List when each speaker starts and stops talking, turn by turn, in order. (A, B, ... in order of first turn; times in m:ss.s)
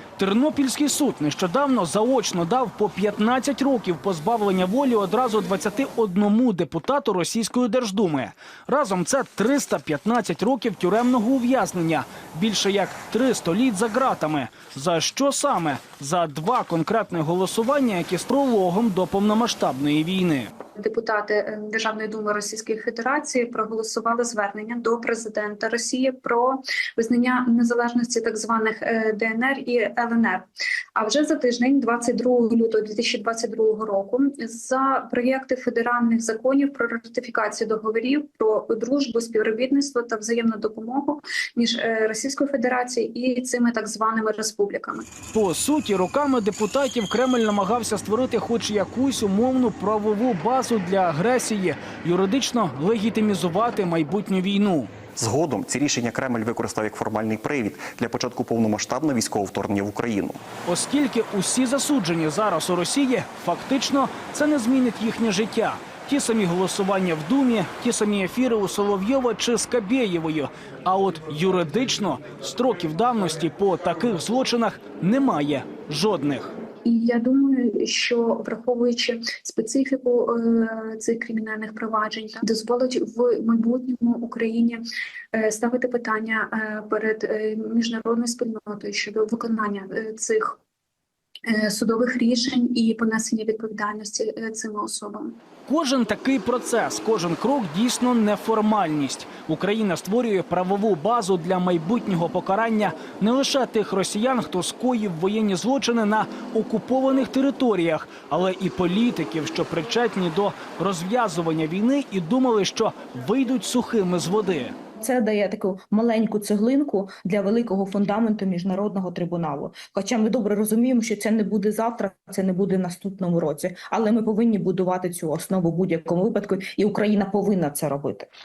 0:00.2-0:20.5 A
0:20.8-0:45.0 B
0:45.3-0:54.9 A
0:55.2-1:00.4 C
1:00.6-1:16.5 A
1:16.8-1:24.8 B
1:25.3-1:30.6 B
1:31.5-1:35.4 B
1:35.7-1:54.7 A
1:55.0-2:08.3 D